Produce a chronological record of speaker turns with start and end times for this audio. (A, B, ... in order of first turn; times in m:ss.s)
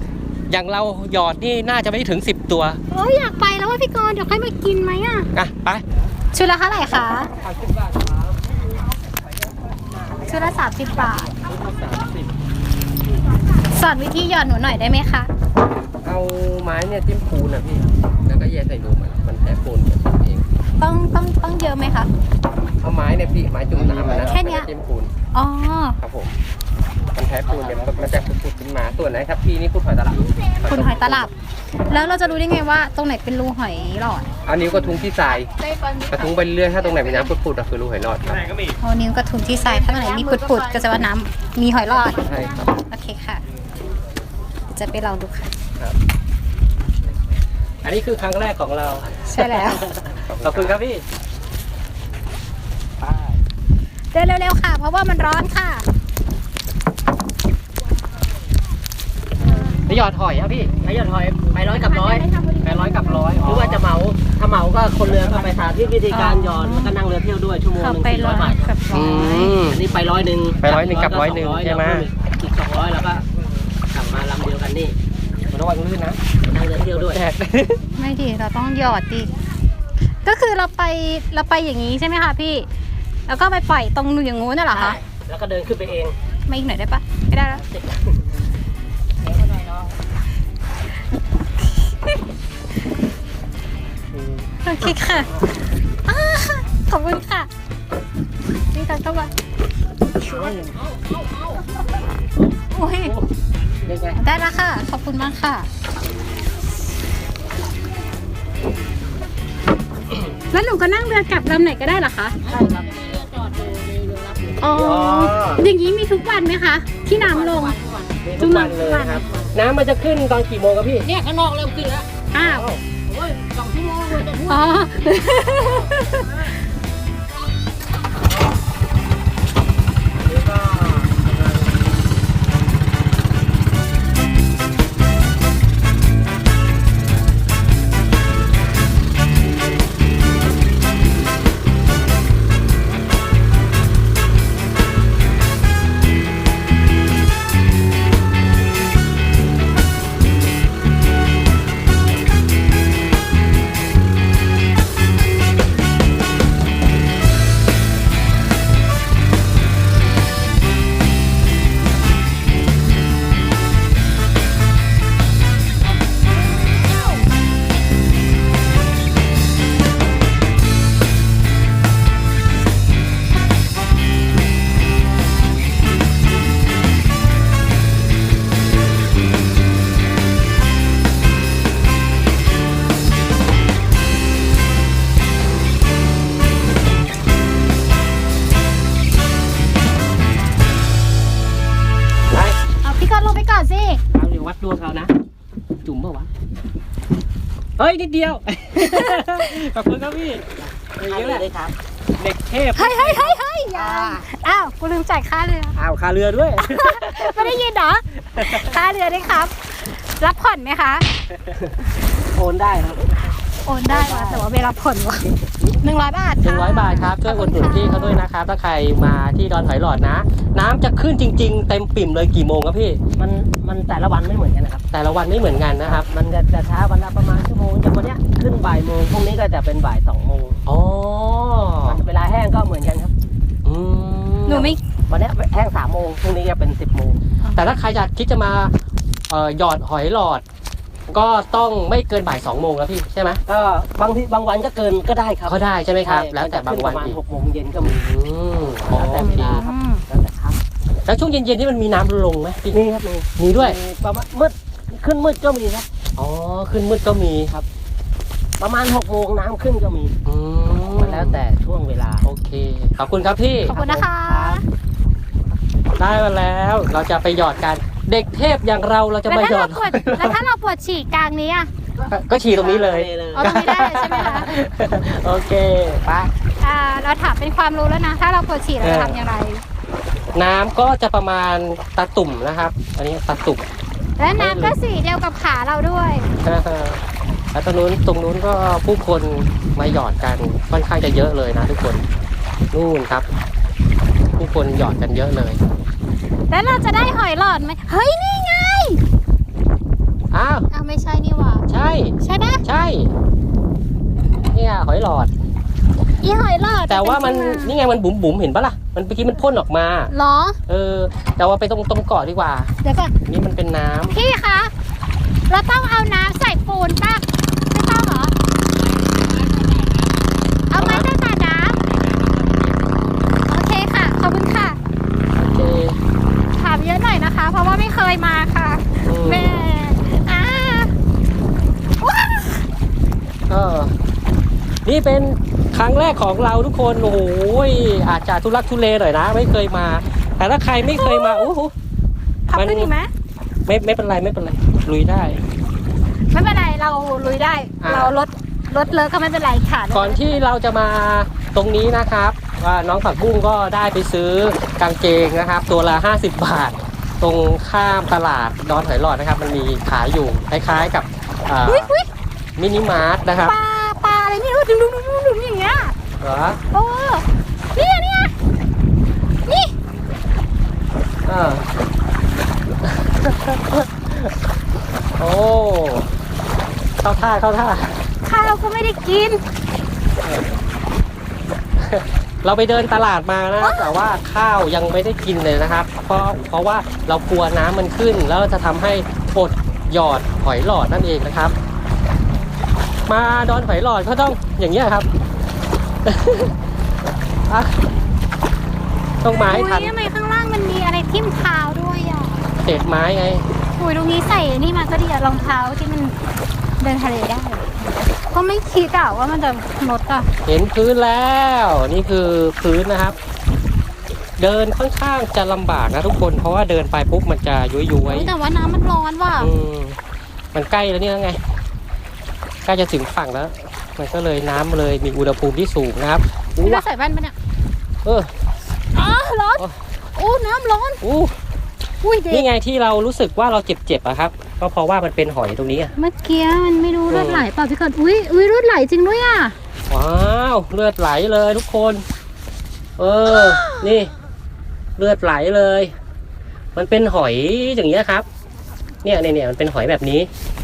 0:00.5-0:02.8 A
0:02.9-0:05.3 B
0:05.3-0:05.8 A
0:06.3-0:07.3 B
0:07.7-0:08.0 C
0:10.3-0:11.3 B
0:11.5-0:12.2 C
0:13.7-0:15.3 B
0:16.0-0:20.4 A
0:20.8-0:22.1 B
0:22.8-0:25.1 A
0:24.1-0:24.7 B
0:25.3-0:26.0 B
0:26.0-0:26.3 A
0:27.1-0:31.3 A
0:30.6-0:31.3 B
0:31.9-0:34.3 B
0:34.4-0:35.5 A
0:35.8-0:36.1 B
0:36.1-0:38.5 A
0:38.8-0:42.2 B
0:42.2-0:42.6 A
0:42.9-0:43.4 B
0:44.7-0:45.5 B
0:47.8-0:51.0 A
0:49.3-0:49.9 B
0:53.0-0:53.4 A
0:54.1-0:55.9 B
0:59.9-1:00.7 A
1:00.8-1:02.3 C
1:02.0-1:03.4 B
1:02.6-1:03.8 A
1:03.4-1:08.7 C
1:05.1-1:05.5 A
1:06.1-1:06.9 B
1:07.8-1:09.6 B
1:08.9-1:09.8 A
1:09.5-1:13.2 C
1:10.6-1:12.1 A
1:13.9-1:15.0 C
1:15.5-1:16.2 A
1:16.4-1:17.2 C
1:17.1-1:17.8 A
1:18.0-1:19.3 B
1:20.2-1:22.7 B
1:23.3-1:25.0 B
1:24.7-1:26.2 C
1:26.5-1:27.6 B
1:27.5-1:28.2 C
1:29.2-1:29.9 C
1:31.8-1:32.2 B
1:34.1-1:34.5 A
1:34.6-1:35.3 B
1:36.0-1:37.5 B
1:38.7-1:39.3 B
1:40.3-1:40.8 C
1:42.7-1:43.1 B
1:43.8-1:44.2 A
1:44.2-1:45.7 B
1:50.5-1:52.4 B
1:52.4-1:55.6 C
1:54.6-1:57.8 B
1:54.9-1:55.5 A
1:57.2-1:59.5 C
1:58.3-2:01.1 A
1:58.4-1:59.2 B
2:01.0-2:04.7 C
2:02.3-2:02.7 B
2:04.4-2:06.3 B
2:06.1-2:06.5 C
2:10.2-2:11.7 C
3:12.8-3:14.0 B
3:14.2-3:15.1 A
3:15.8-3:16.3 A
3:17.8-3:21.5 A
3:18.8-3:19.6 B
3:21.0-3:21.8 C
3:22.2-3:23.4 A
3:22.8-3:25.8 B
3:23.8-3:24.2 C
3:25.8-3:26.5 C
3:26.4-3:27.4 A
3:26.6-3:31.1 B
3:32.3-3:33.3 C
3:33.6-3:38.2 B
3:33.9-3:34.5 C
3:35.5-3:35.8 C
3:36.4-3:43.0 A
3:43.2-3:44.8 C
3:44.9-3:46.1 A
3:45.8-3:50.6 C
3:50.7-3:52.0 A
3:51.8-3:53.1 C
3:53.6-3:54.8 A
3:54.5-3:54.8 B
3:55.1-3:57.2 C
3:57.6-3:58.7 A
3:59.3-4:00.4 A
4:01.1-4:03.4 A
4:03.5-4:08.0 C
4:05.5-4:07.2 A
4:07.8-4:09.6 A
4:08.8-4:10.6 C
4:09.2-4:10.0 B
4:11.1-4:12.8 A
4:12.7-4:15.9 C
4:13.4-4:13.8 A
4:16.2-4:17.6 A
4:18.6-4:20.1 C
4:20.2-4:21.4 A
4:20.9-4:22.2 C
4:22.2-4:23.8 A
4:23.7-4:24.6 C
4:23.7-4:24.6 B
4:26.0-4:30.4 A
4:29.3-4:31.7 B
4:32.0-4:33.6 C
4:32.1-4:36.3 A
4:33.4-4:34.5 B
4:36.6-4:39.6 B
4:38.8-4:39.2 A
4:40.3-4:43.7 A
4:44.2-4:46.3 B
4:44.4-4:44.8 A
4:46.4-4:47.0 A
4:47.5-4:52.0 A
4:52.7-4:53.3 A
4:54.4-4:55.6 A
4:56.5-4:59.0 B
5:00.3-5:00.7 A
5:00.7-5:01.7 B
5:01.7-5:03.1 A
5:02.2-5:02.6 B
5:04.5-5:05.3 A
5:06.2-5:07.8 B
5:06.9-5:10.1 A
5:10.1-5:10.6 B
5:10.7-5:12.7 A
5:12.8-5:13.1 B
5:13.2-5:14.2 A
5:14.1-5:14.7 B
5:15.5-5:18.4 B
5:18.9-5:20.2 C
5:20.7-5:21.8 B
5:20.8-5:21.1 A
5:21.9-5:22.9 C
5:23.5-5:24.8 B
5:25.4-5:26.0 A
5:26.6-5:30.9 B
5:29.0-5:29.6 A
5:32.0-5:32.7 B
5:33.5-5:33.9 A
5:34.8-5:41.7 A
5:40.9-5:41.5 B
5:42.5-5:43.1 B
5:42.5-5:42.9 A
5:43.7-5:45.4 A
5:46.3-5:50.4 B
5:47.8-5:48.1 A
5:49.9-6:01.9 A
6:01.6-6:02.1 B
6:02.6-6:03.5 A
6:03.4-6:06.0 B
6:06.2-6:06.6 A
6:06.7-6:08.3 B
6:09.5-6:09.7 B
6:11.2-6:11.7 A
6:12.8-6:14.3 A
6:15.2-6:16.1 A
6:17.0-6:18.1 A
6:18.2-6:19.4 B
6:21.8-6:31.5 A
6:23.6-6:23.9 B
6:33.1-6:35.1 A
6:36.0-6:36.6 A
6:37.5-6:37.8 A
6:39.2-6:39.9 A
6:39.3-6:42.5 B
6:42.6-6:43.5 A
6:43.8-6:46.1 B
6:46.8-6:50.3 B
6:50.5-6:53.2 A
6:54.4-6:58.3 A
6:58.1-6:59.5 B
6:59.4-7:00.0 A
7:00.5-7:01.4 A
7:02.6-7:06.9 A
7:06.6-7:07.4 B
7:08.0-7:08.3 A
7:08.9-7:11.0 B
7:11.0-7:11.4 A
7:12.0-7:12.5 B
7:12.3-7:15.9 A
7:16.0-7:19.6 B
7:17.1-7:17.5 A
7:19.9-7:22.0 A
7:23.0-7:24.1 A
7:23.4-7:23.8 B
7:25.0-7:25.9 A
7:26.8-7:28.3 A
7:29.0-7:30.3 A